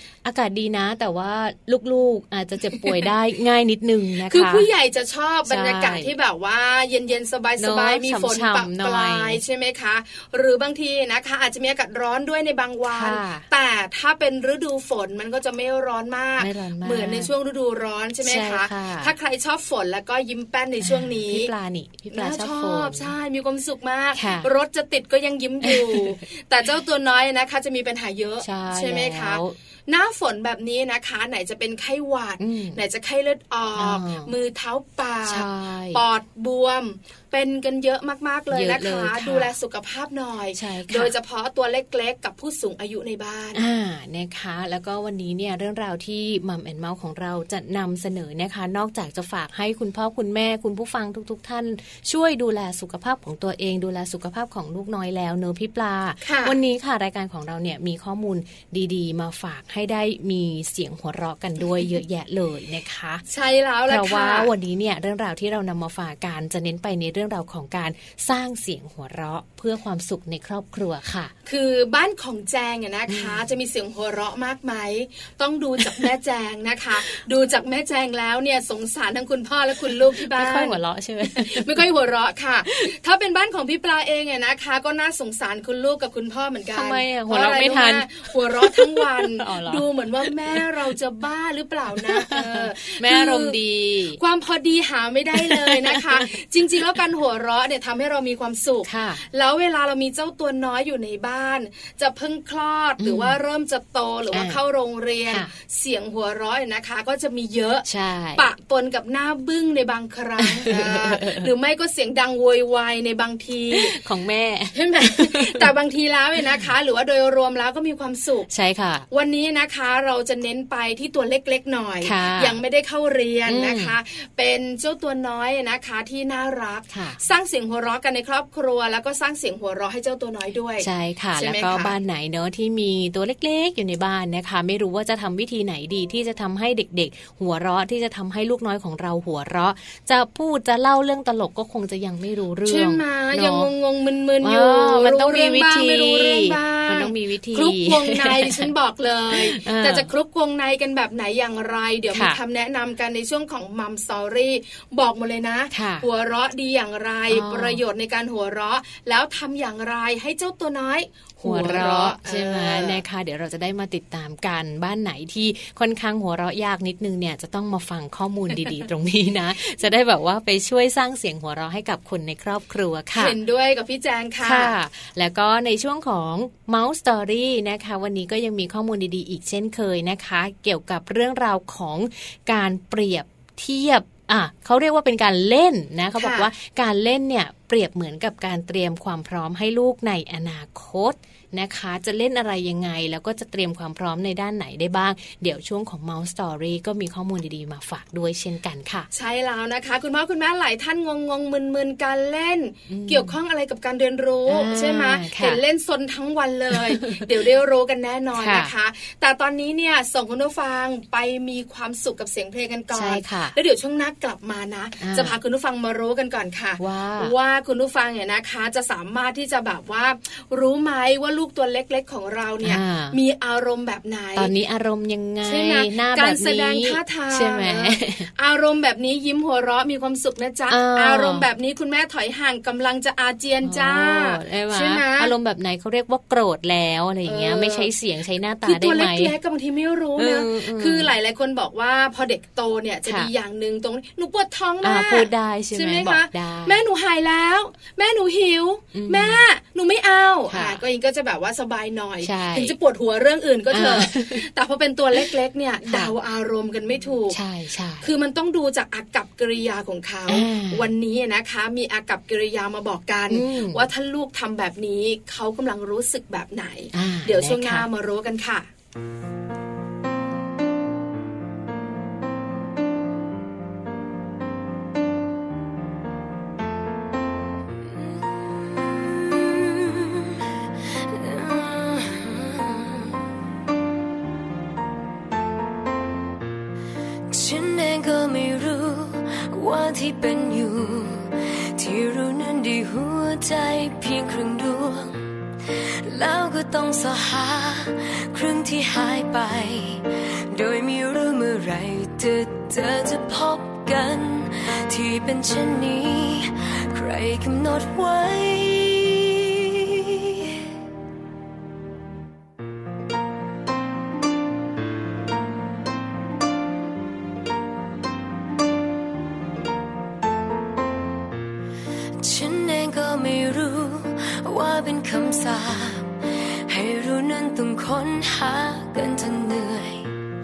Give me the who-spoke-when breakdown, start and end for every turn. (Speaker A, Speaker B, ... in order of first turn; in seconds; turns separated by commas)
Speaker A: 0.2-4.7, Speaker B: 4.2-21.5, Speaker A: 5.5-6.1, Speaker A: 7.6-9.4, Speaker A: 12.9-13.5, Speaker A: 16.4-17.3, Speaker A: 18.2-19.1, Speaker A: 20.8-23.1, Speaker B: 22.1-43.6, Speaker A: 24.1-24.5, Speaker A: 25.6-26.1, Speaker A: 28.4-29.6, Speaker A: 32.4-32.8, Speaker A: 33.8-34.3, Speaker A: 35.2-36.0, Speaker A: 38.5-39.5, Speaker A: 40.5-41.1, Speaker A: 43.5-63.2, Speaker B: 56.2-56.6, Speaker B: 63.3-64.5, Speaker A: 63.9-71.3, Speaker B: 71.5-93.6, Speaker A: 73.1-73.4, Speaker A: 75.8-76.1, Speaker A: 80.1-81.9, Speaker A: 86.7-90.7, Speaker A: 92.0-94.2, Speaker B: 94.2-114.0, Speaker A: 95.3-96.3, Speaker A: 98.8-99.2, Speaker A: 103.0-103.4, Speaker A: 104.3-104.6, Speaker A: 107.8-108.5, Speaker A: 110.4-111.5, Speaker A: 113.7-115.7, Speaker B: 114.7-118.5, Speaker A: 118.5-119.1, Speaker B: 119.1-131.9, Speaker A: 122.0-122.6, Speaker A: 123.5-124.0, Speaker A: 126.9-127.2, Speaker A: 130.8-143.7, Speaker B: 142.6-163.0, Speaker A: 144.4-148.7, Speaker A: 149.3-150.1, Speaker A: 152.1-152.4, Speaker A: 155.7-156.1, Speaker A: 157.3-157.8, Speaker A: 161.4-173.4, Speaker B: 173.1-174.7, Speaker A: 174.4-199.1, Speaker B: 186.2-186.5, Speaker B: 199.1-224.5, Speaker A: 202.9-203.3, Speaker A: 204.5-205.6, Speaker A: 206.7-207.3, Speaker A: 208.3-208.7, Speaker A: 212.9-213.6, Speaker A: 215.0-215.3, Speaker A: 216.8-217.3, Speaker A: 222.6-223.2, Speaker A: 224.3-228.3, Speaker B: 225.4-235.3, Speaker A: 230.7-231.5, Speaker A: 233.6-239.3, Speaker B: 237.2-237.9, Speaker B: 238.6-257.4, Speaker A: 240.2-241.1, Speaker A: 243.1-243.3, Speaker A: 244.8-246.8, Speaker A: 248.9-249.4, Speaker A: 250.5-250.8, Speaker A: 252.2-252.8, Speaker A: 253.7-254.4, Speaker A: 255.8-256.1, Speaker A: 257.3-258.1, Speaker B: 258.0-268.7, Speaker A: 260.3-260.9, Speaker A: 263.3-263.9, Speaker A: 266.9-267.9, Speaker C: 278.2-280.4, Speaker C: 281.0-283.1, Speaker C: 287.3-310.5, Speaker C: 322.2-326.1, Speaker C: 326.7-330.1